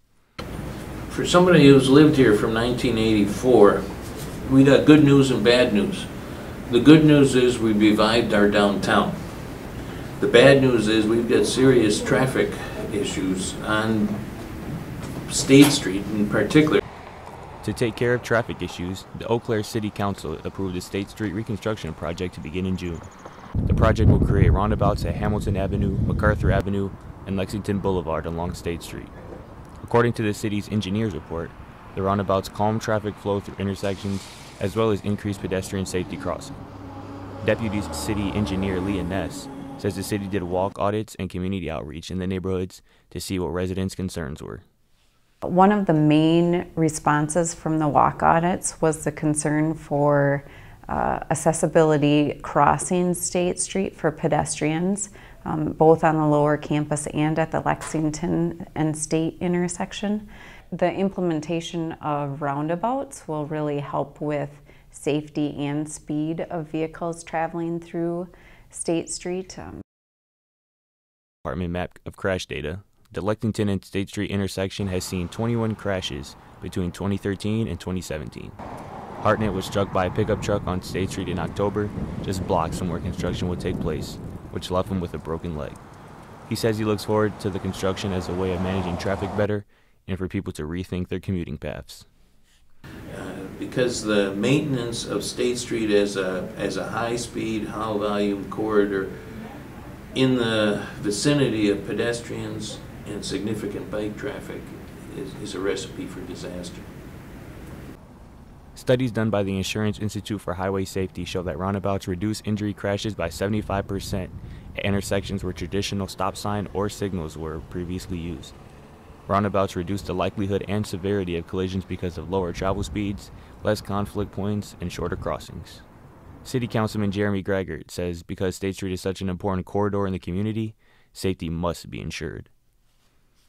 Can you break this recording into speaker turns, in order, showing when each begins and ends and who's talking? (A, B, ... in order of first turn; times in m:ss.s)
0:01.1-0:14.5 A
0:15.2-0:16.8 A
0:17.6-0:23.1 B
0:23.6-0:29.1 B
0:29.8-0:36.6 B
0:37.4-0:44.6 B
0:45.4-1:09.8 C
1:11.4-1:18.6 B
1:19.2-1:25.8 B
1:26.5-1:32.1 B
1:33.1-1:39.4 A
1:40.1-1:46.9 A
1:48.7-1:58.5 B
1:59.3-2:05.8 B
2:06.4-2:12.5 B